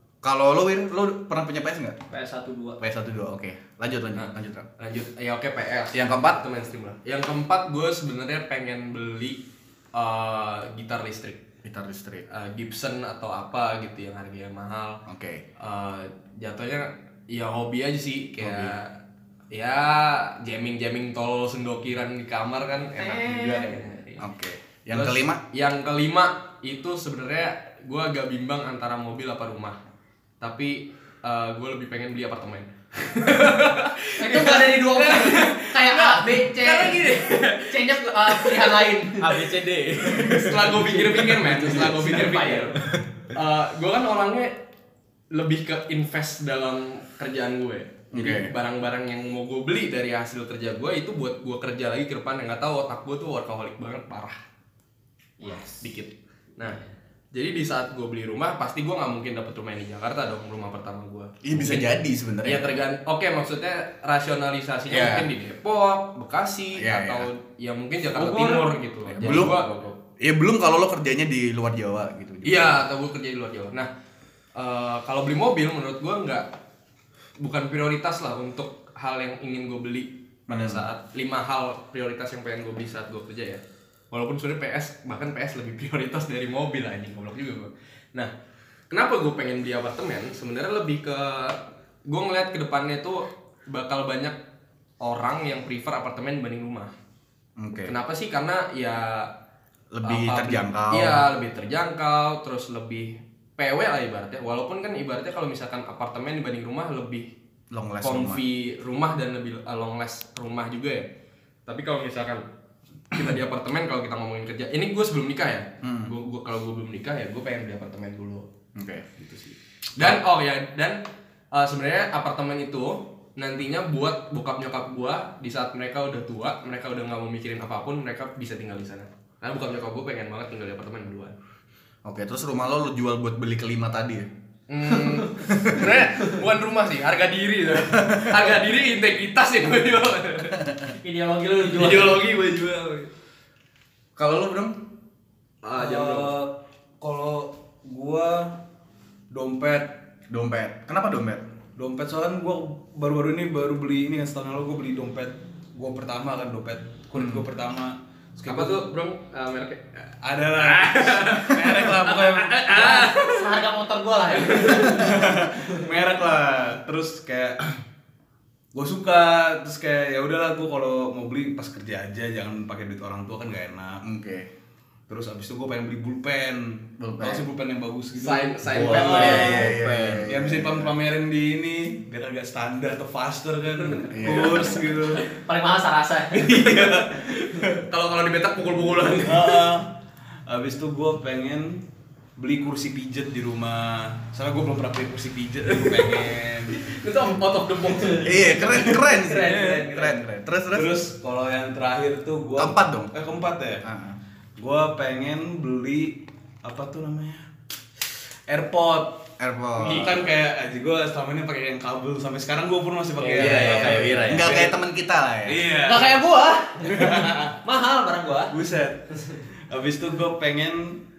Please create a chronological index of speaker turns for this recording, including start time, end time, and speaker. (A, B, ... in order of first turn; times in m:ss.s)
0:00.2-0:02.0 A
0:02.1-0:02.8 B
0:02.8-0:04.7 A
0:04.2-0:11.4 C
0:05.9-0:06.4 A
0:11.6-0:12.2 A
0:12.3-0:15.0 C
0:15.0-0:15.4 A
0:15.6-0:18.9 C
0:18.4-0:18.8 A
0:19.5-0:24.2 C
0:23.0-0:24.0 B
0:24.2-0:25.4 A
0:24.9-0:29.8 C
0:30.4-0:39.1 C
0:34.2-0:39.3 B
0:39.2-0:42.1 D
0:40.1-0:42.8 C
0:41.6-0:42.8 B
0:43.3-0:44.6 C
0:45.3-0:54.4 C
0:48.1-0:48.5 A
0:55.4-0:55.8 B
0:55.6-0:56.8 C
0:57.3-1:10.0 C
1:01.4-1:02.6 A
1:04.9-1:05.3 A
1:06.7-1:07.3 A
1:08.2-1:08.6 E
1:09.2-1:09.7 A
1:10.2-1:12.8 A
1:12.4-1:13.9 C
1:14.6-1:16.5 C
1:17.4-1:28.3 C
1:20.5-1:20.8 A
1:28.9-1:34.4 C
1:35.0-1:36.9 C
1:37.6-1:38.0 A
1:37.8-1:39.3 C
1:39.9-1:41.2 A
1:40.0-1:47.3 C
1:47.7-1:48.4 A
1:48.0-1:51.1 C
1:51.6-1:52.4 C
1:53.1-1:58.5 C
1:55.8-1:56.1 A
1:58.7-1:59.1 A
1:59.2-2:11.4 C
2:12.0-2:14.3 A
2:14.7-2:20.6 C
2:14.9-2:16.0 A
2:18.0-2:18.4 A
2:21.0-2:22.2 B
2:21.6-2:23.1 C
2:24.2-2:24.8 A
2:25.6-2:26.3 C
2:25.8-2:28.6 E
2:29.3-2:30.0 E
2:30.3-2:31.4 A
2:31.8-2:38.9 E
2:37.2-2:37.4 A
2:38.5-2:43.5 C
2:40.2-2:43.0 E
2:42.7-2:45.4 B
2:44.4-2:44.8 C
2:44.6-2:47.6 E
2:48.7-2:54.0 E
2:54.0-2:54.5 A
2:55.1-2:59.7 E
2:57.0-2:57.4 A
2:58.2-2:59.6 C
2:58.7-3:00.2 D
2:58.9-3:00.9 A
3:00.2-3:05.3 E
3:04.1-3:04.9 A
3:05.3-3:06.6 B
3:06.4-3:07.7 E
3:06.4-3:09.7 C
3:09.2-3:10.0 E
3:10.5-3:11.8 E
3:12.4-3:16.9 E
3:15.7-3:19.0 C
3:18.2-3:20.9 A
3:19.0-3:20.1 B
3:19.4-3:19.9 E
3:20.7-3:23.8 E
3:22.6-3:23.1 A
3:23.8-3:24.2 A
3:24.6-3:27.5 E
3:28.5-3:34.8 E
3:29.4-3:30.2 A
3:33.2-3:34.7 D
3:33.3-3:33.9 C
3:33.4-3:35.7 A
3:35.4-3:36.2 E
3:35.8-3:38.6 B
3:36.8-3:37.6 E
3:38.5-3:41.0 E